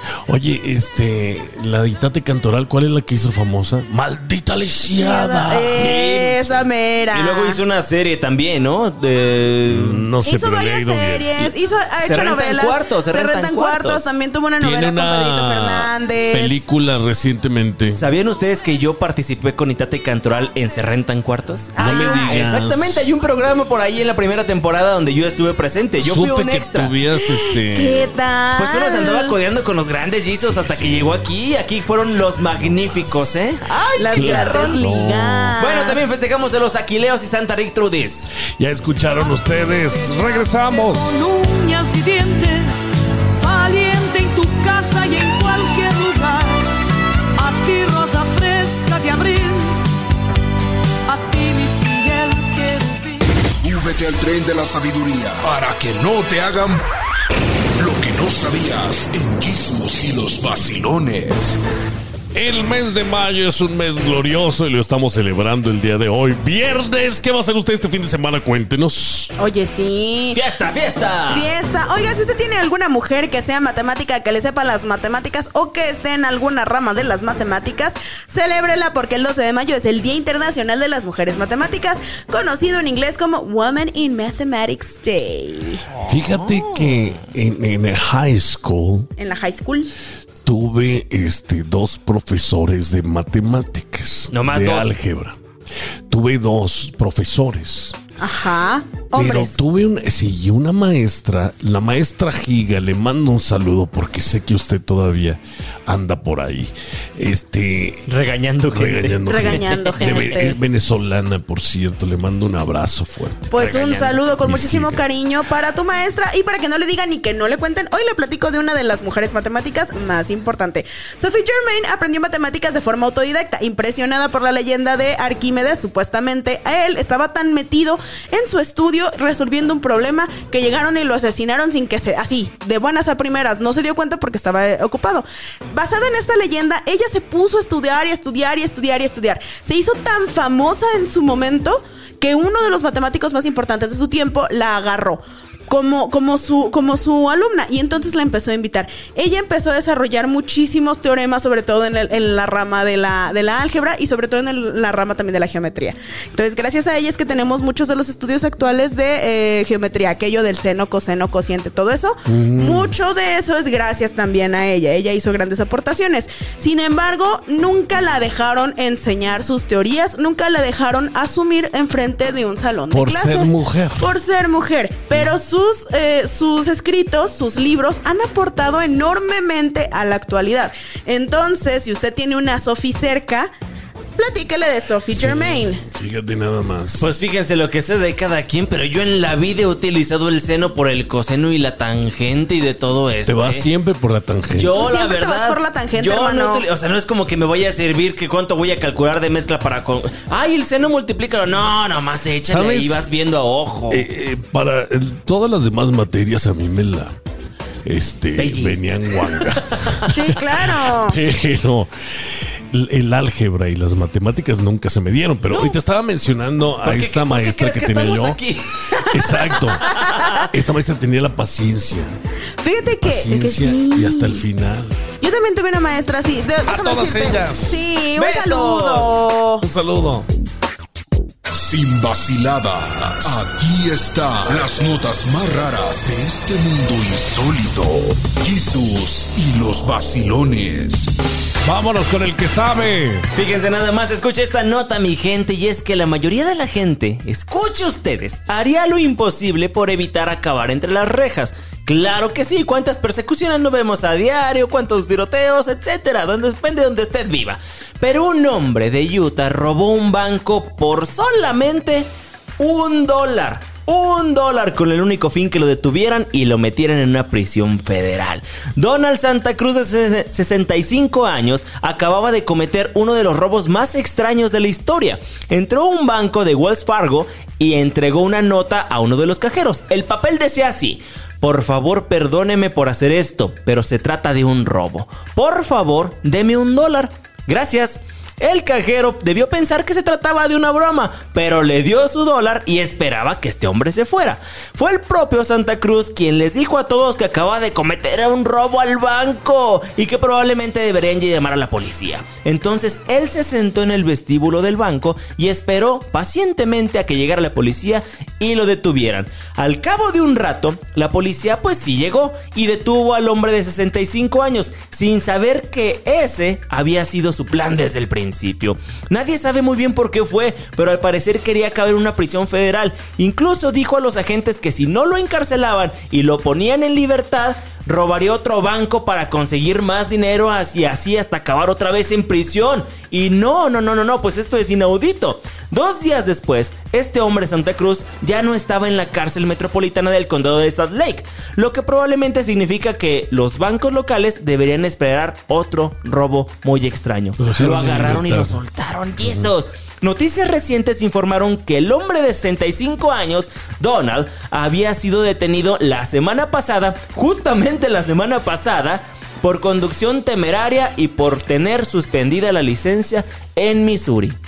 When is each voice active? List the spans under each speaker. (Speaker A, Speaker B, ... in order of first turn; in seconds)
Speaker A: 0.3-6.1, 9.7-11.5, 14.6-18.1, 21.8-23.1, 26.0-28.1, 30.4-31.1, 32.7-33.4, 34.0-35.6, 38.6-41.2, 62.3-69.3, 86.0-89.1, 90.4-95.4, 96.1-98.0, 99.1-108.1, 108.7-113.5, 114.4-115.0, 162.3-162.9, 172.9-174.1, 185.1-187.1, 193.2-194.8, 202.4-203.1, 203.9-207.1, 207.8-210.1, 210.7-218.4, 219.1-222.2, 223.0-225.0, 226.7-227.8, 229.6-230.3, 241.6-243.3, 347.4-348.6, 349.2-349.5
Speaker B: 5.2-7.6, 10.2-16.6, 21.8-22.4, 27.7-29.3, 33.6-36.0, 69.4-70.4, 71.3-85.8, 89.2-89.9, 98.2-99.5, 109.3-110.6, 113.5-183.5, 184.2-185.8, 194.7-196.6, 210.1-211.2, 215.5-215.8, 219.9-220.5, 222.6-224.4, 225.2-229.6
Speaker C: 5.5-10.1, 12.0-14.1, 17.9-26.9, 28.6-34.7, 35.6-38.3, 70.3-71.5, 85.9-87.2, 94.3-94.9, 108.1-110.4, 113.6-114.2, 187.0-193.7, 194.5-204.1, 208.4-210.4, 216.8-220.4, 228.1-229.2, 243.3-262.1, 262.6-364.4
Speaker D: 39.6-46.7, 47.3-49.9, 51.1-53.4
Speaker E: 53.3-56.8, 57.8-61.6, 231.5-241.1